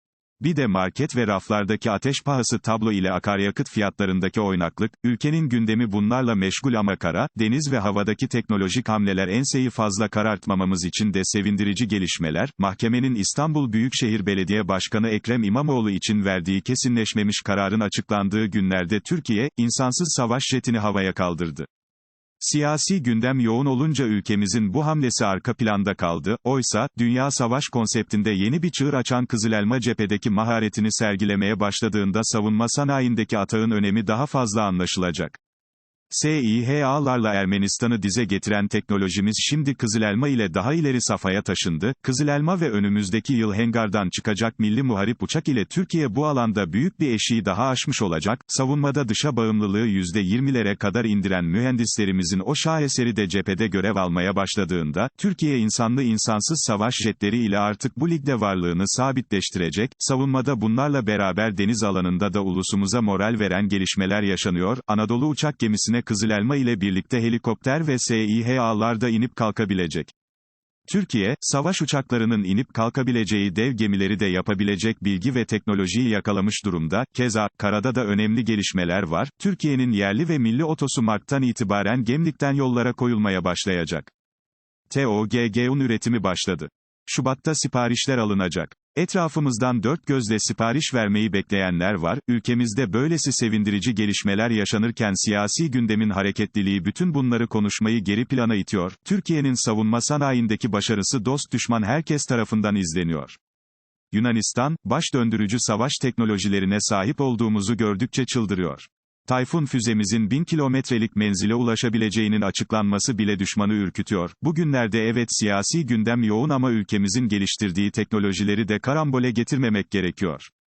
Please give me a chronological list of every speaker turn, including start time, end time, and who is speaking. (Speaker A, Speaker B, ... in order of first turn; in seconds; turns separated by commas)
Speaker A: 0.4-21.7, Speaker A: 22.4-35.4, Speaker A: 36.1-70.1, Speaker A: 70.9-84.1, Speaker A: 84.9-103.4, Speaker A: 104.1-120.5